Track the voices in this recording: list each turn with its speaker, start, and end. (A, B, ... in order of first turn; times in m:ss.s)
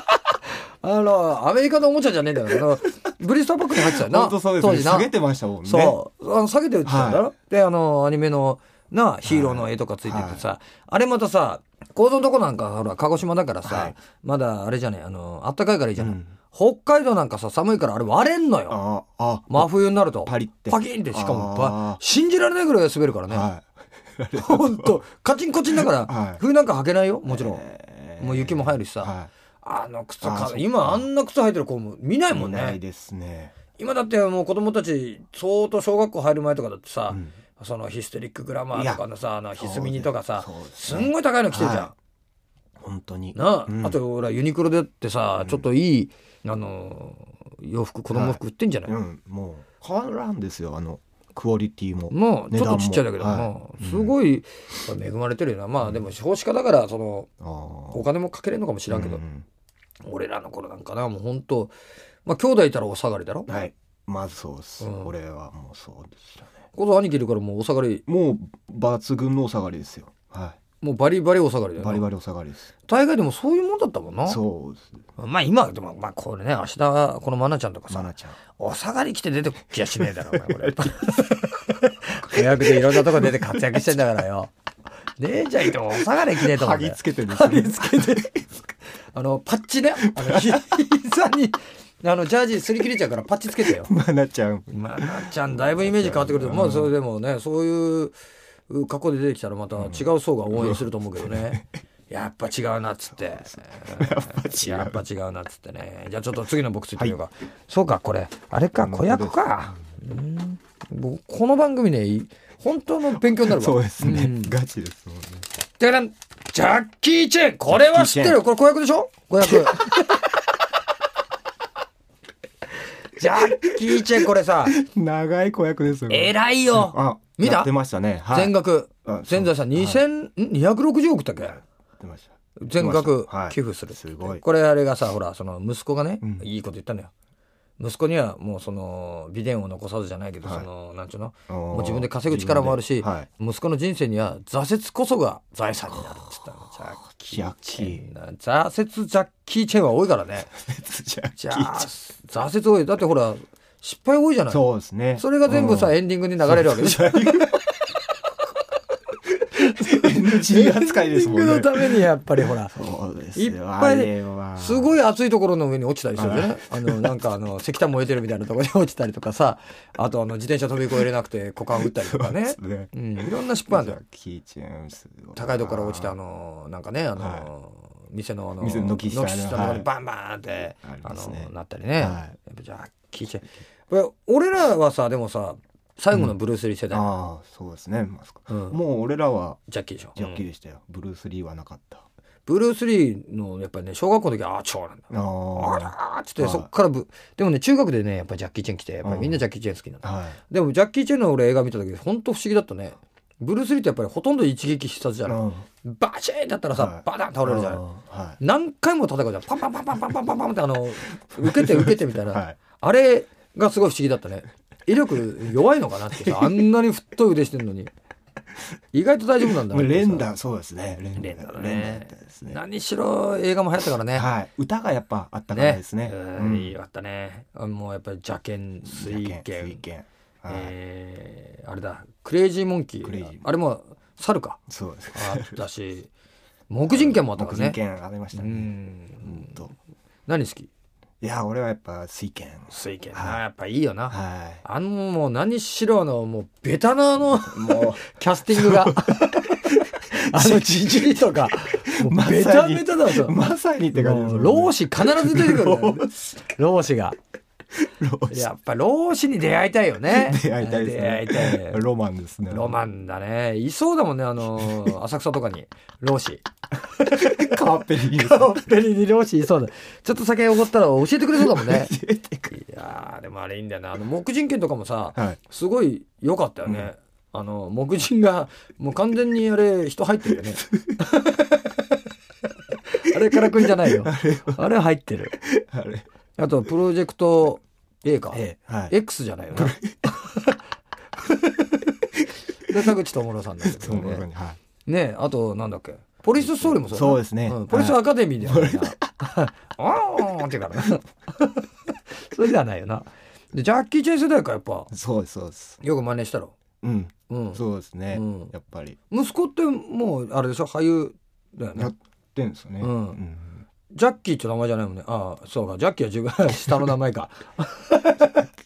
0:00.8-0:05.1 A
0:03.7-0:06.0 B
0:05.6-0:18.8 A
0:06.8-0:07.3 B
0:09.2-0:10.4 B
0:13.6-0:14.0 B
0:16.0-0:16.3 B
0:18.7-0:22.0 B
0:19.5-0:23.5 A
0:23.3-0:25.0 B
0:24.4-0:27.6 A
0:25.7-0:26.4 B
0:27.2-0:29.3 B
0:28.2-0:32.8 A
0:30.2-0:31.1 B
0:32.3-0:33.6 B
0:33.8-0:41.9 A
0:38.7-0:41.9 B
0:42.8-0:44.0 B
0:43.4-0:49.0 A
0:45.4-0:45.7 B
0:48.1-0:54.2 B
0:52.1-0:57.3 A
0:57.4-0:58.1 B
0:57.9-0:59.2 A
0:58.9-0:59.4 B
1:00.0-1:01.7 A
1:02.2-1:03.5 A
1:03.5-1:06.5 B
1:04.8-1:05.1 A
1:06.8-1:08.0 A
1:08.1-1:10.6 B
1:10.8-1:12.1 A
1:11.8-1:12.7 B
1:12.9-1:14.4 A
1:14.3-1:15.0 B
1:15.2-1:24.5 A
1:17.9-1:18.4 B
1:20.0-1:21.2 B
1:22.3-1:24.0 B
1:25.2-1:28.4 A
1:26.3-1:28.4 B
1:29.1-1:33.9 A
1:30.0-1:30.6 B
1:33.6-1:37.0 B
1:34.7-1:38.2 A
1:38.7-1:54.6 A
1:39.8-1:41.6 B
1:43.4-1:45.0 B
1:48.8-1:49.8 B
1:53.1-1:55.5 B
1:55.8-2:00.3 A
1:57.7-1:58.4 B
1:59.4-2:00.1 B
2:03.2-2:04.8 A
2:03.4-2:03.8 B
2:04.6-2:10.0 B
2:06.1-2:07.7 A
2:08.3-2:11.6 A
2:11.4-2:14.4 B
2:12.6-2:17.1 A
2:17.8-2:30.6 A
2:21.5-2:23.3 B
2:27.0-2:28.1 B
2:30.6-2:31.9 B
2:31.4-2:34.6 A
2:34.5-2:37.6 B
2:35.2-2:37.5 A
2:39.6-2:42.1 B
2:39.7-2:42.8 A
2:42.7-2:45.0 B
2:43.4-2:54.0 A
2:46.2-2:47.1 B
2:51.8-2:56.2 B
2:55.4-3:07.1 A
2:57.2-2:57.5 B
2:58.6-2:59.9 B
3:00.8-3:02.4 B
3:06.9-3:09.6 B
3:08.5-3:08.8 A
3:09.7-3:10.5 A
3:10.2-3:12.0 B
3:12.5-3:27.8 A
3:15.1-3:16.7 B
3:19.0-3:19.4 B
3:20.0-3:20.4 B
3:25.3-3:25.6 B
3:26.7-3:28.4 B
3:28.4-3:37.9 A
3:31.4-3:32.6 B
3:36.2-3:36.5 B
3:38.9-3:40.3 A
3:39.5-3:42.6 B
3:41.2-3:44.3 A
3:44.1-3:46.8 B
3:45.5-3:49.8 A
3:48.8-3:50.7 B
3:50.5-3:54.6 A
3:53.0-3:53.5 B
3:54.7-3:55.6 B
3:55.1-3:56.1 A
3:56.7-3:57.8 A
3:56.9-3:59.7 B
3:58.4-3:59.6 A
4:00.3-4:00.7 A
4:01.2-4:03.4 B
4:02.7-4:13.4 A
4:04.1-4:04.6 B
4:07.2-4:16.4 B
4:13.9-4:17.2 A
4:17.9-4:18.5 B
4:18.3-4:21.8 A
4:20.1-4:22.8 B
4:22.5-4:32.0 A
4:27.0-4:28.6 B
4:31.4-4:32.5 B
4:32.5-4:41.6 A
4:42.9-4:45.4 A
4:43.4-4:44.7 B
4:45.4-4:46.0 B
4:46.4-4:50.6 A
4:48.3-4:49.0 B
4:49.5-4:50.1 B
4:51.3-4:52.1 A
4:52.6-4:54.3 A
4:53.6-4:54.6 B
4:54.9-5:04.9 A
4:56.4-4:59.1 B
5:04.9-5:05.8 B
5:05.8-5:06.5 A
5:06.8-5:09.0 B
5:07.3-5:08.5 A
5:09.1-5:11.9 A
5:11.8-5:13.6 B
5:12.8-5:13.2 A
5:13.9-5:18.4 A